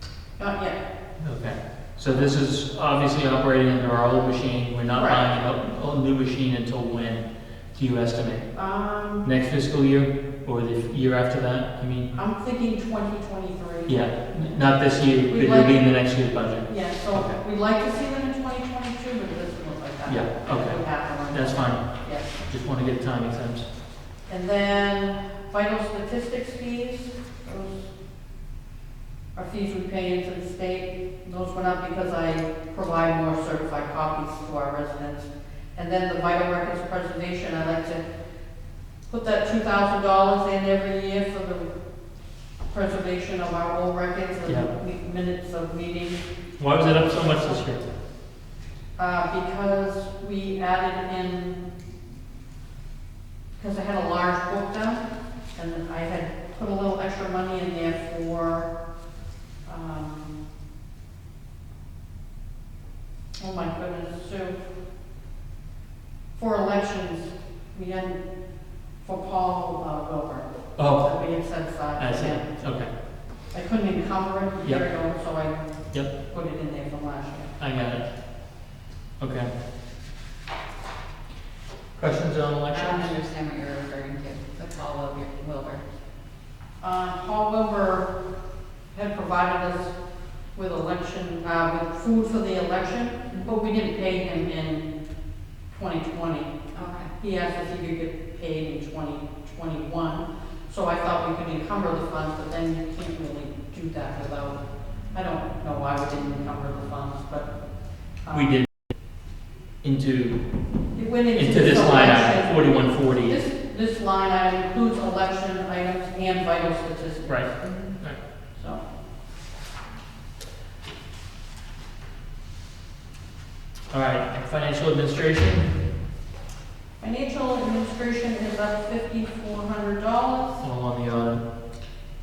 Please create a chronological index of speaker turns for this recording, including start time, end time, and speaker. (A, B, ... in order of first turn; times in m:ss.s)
0:00.4-0:00.8 A
0:01.2-0:08.5 B
0:04.9-0:05.3 A
0:08.5-0:09.2 A
0:09.2-0:12.1 B
0:12.1-0:14.6 A
0:13.9-0:17.4 B
0:15.2-0:15.9 A
0:16.6-0:22.4 A
0:20.0-0:23.6 B
0:24.3-0:27.9 A
0:29.3-0:38.0 A
0:39.1-0:41.7 A
0:42.7-0:46.2 A
0:44.4-0:44.7 B
0:46.6-0:47.8 B
0:46.8-0:47.6 A
0:49.0-0:51.7 A
0:53.6-0:58.7 A
0:59.6-1:00.3 A
1:03.4-1:04.6 A
1:06.4-1:08.2 A
1:09.0-1:12.6 A
1:10.8-1:11.1 B
1:12.0-1:12.9 B
1:13.5-1:17.5 A
1:17.6-1:18.0 B
1:19.2-1:19.5 B
1:22.0-1:23.1 B
1:22.7-1:25.8 C
1:26.8-1:28.1 A
1:28.9-1:29.9 A
1:30.5-1:34.8 A
1:35.7-1:36.5 A
1:36.7-1:37.1 C
1:37.2-1:47.5 A
1:48.2-1:48.5 A
1:48.3-1:48.7 B
1:49.8-1:50.4 B
1:50.9-1:57.8 A
1:51.3-1:53.4 B
1:58.5-1:58.8 A
2:03.9-2:05.7 B
2:07.0-2:10.6 A
2:10.6-2:11.4 B